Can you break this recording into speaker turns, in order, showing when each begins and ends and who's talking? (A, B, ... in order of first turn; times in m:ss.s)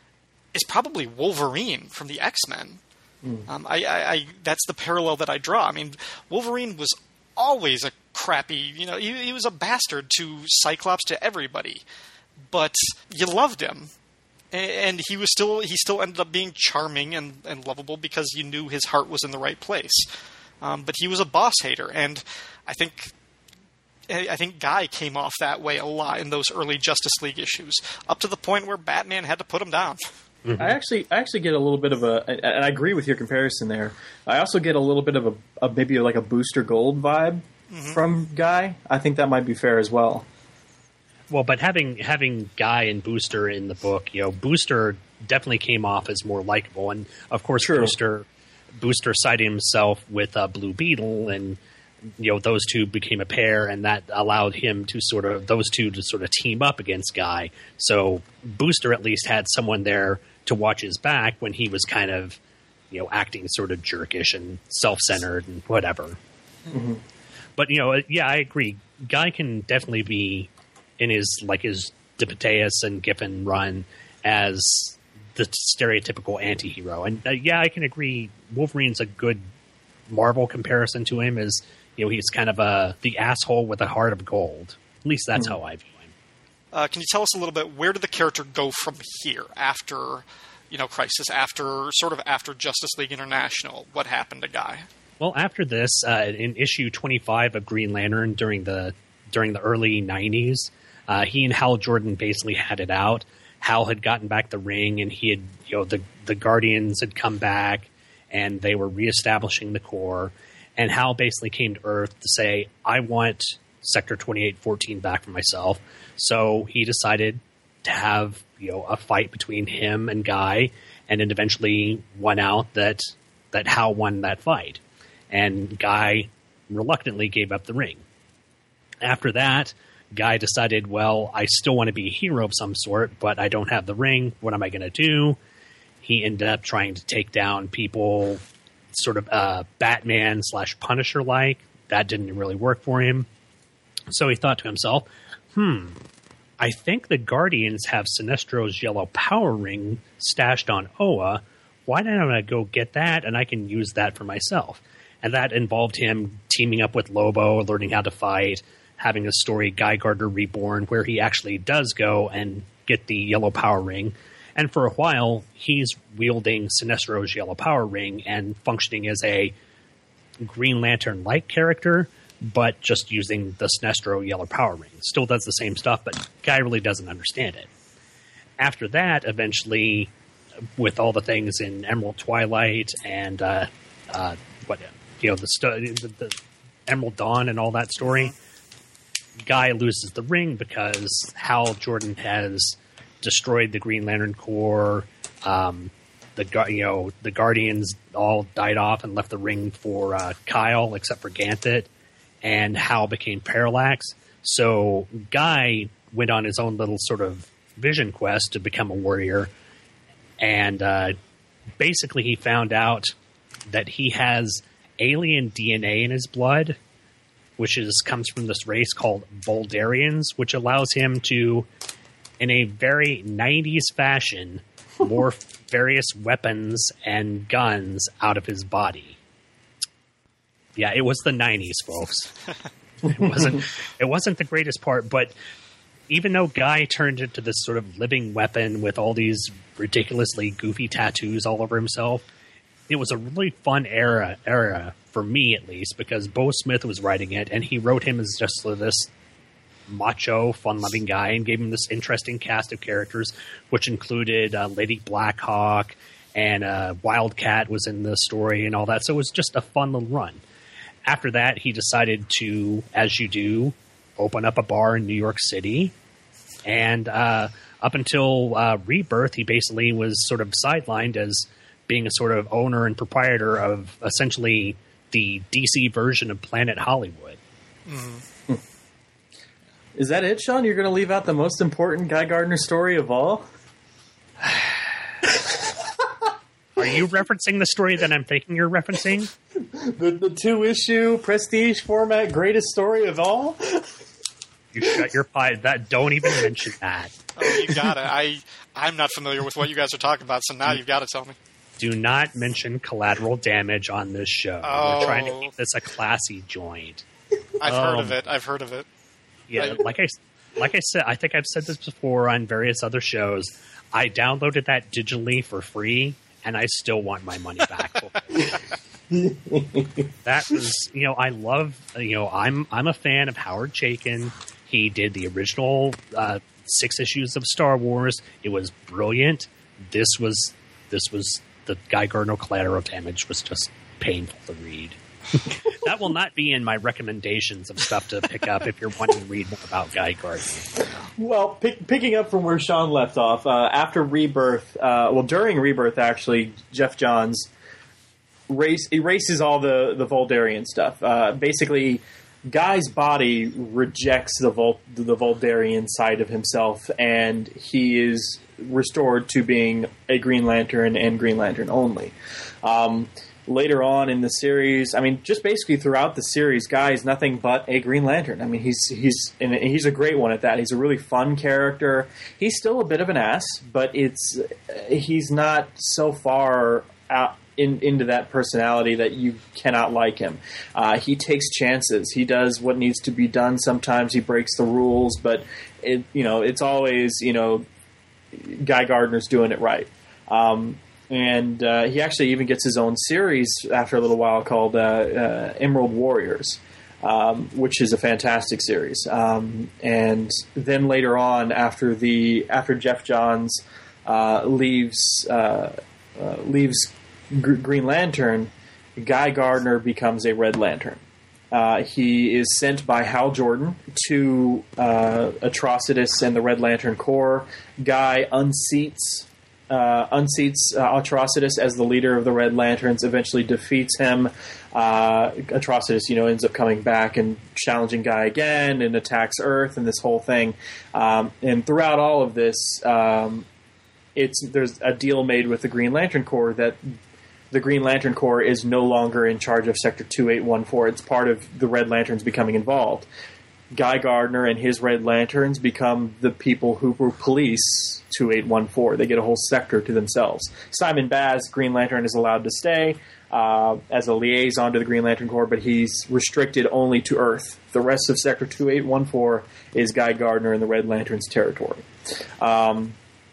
0:00.5-0:02.8 A
0:03.5-0:11.8 A
0:12.5-0:13.9 A
0:14.5-0:20.1 A
0:20.6-0:23.1 A
0:24.1-0:30.0 A
0:30.4-0:30.8 B
0:30.6-0:40.3 C
0:37.7-0:38.0 A
0:41.3-0:48.2 B
0:47.6-0:48.0 C
0:48.8-0:51.6 B
0:52.2-1:02.4 B
1:02.9-1:06.2 B
1:06.7-1:07.0 C
1:07.6-1:19.4 B
1:20.1-1:26.1 B
1:26.7-1:34.9 A
1:35.2-2:08.0 B
2:09.0-2:15.4 B
2:16.0-2:18.4 B
2:18.9-2:23.3 B
2:24.1-2:26.0 B
2:26.6-2:49.5 B
2:50.4-2:57.7 B
2:58.6-3:00.1 B
3:00.8-3:06.3 B
3:06.9-3:08.3 B
3:09.4-3:21.9 B
3:22.4-3:29.5 B
3:30.4-3:31.1 B
3:31.8-3:33.1 B
3:33.7-3:36.8 B
3:37.6-3:41.7 B
3:42.4-3:49.2 B
3:50.8-3:52.4 B
3:53.1-3:55.3 B
3:56.1-4:02.2 B
4:02.9-4:09.1 B
4:09.9-4:20.4 B
4:21.1-4:25.9 B
4:26.6-4:37.4 B
4:37.9-4:38.2 A
4:40.0-4:43.5 C
4:46.8-4:49.3 B
4:49.7-4:53.9 C
4:54.7-4:57.1 B
4:57.4-5:01.4 A
5:01.8-5:07.0 B
5:04.6-5:05.5 A
5:07.6-5:08.2 B
5:07.6-5:08.9 A
5:09.5-5:18.6 B
5:19.1-5:20.1 C
5:20.2-5:35.0 B
5:35.5-5:40.9 B
5:41.2-5:47.5 C
5:48.5-6:27.7 C
6:28.3-7:13.5 C
7:14.2-7:16.9 C
7:17.5-7:23.1 C
7:23.7-7:41.9 C
7:42.4-7:43.0 C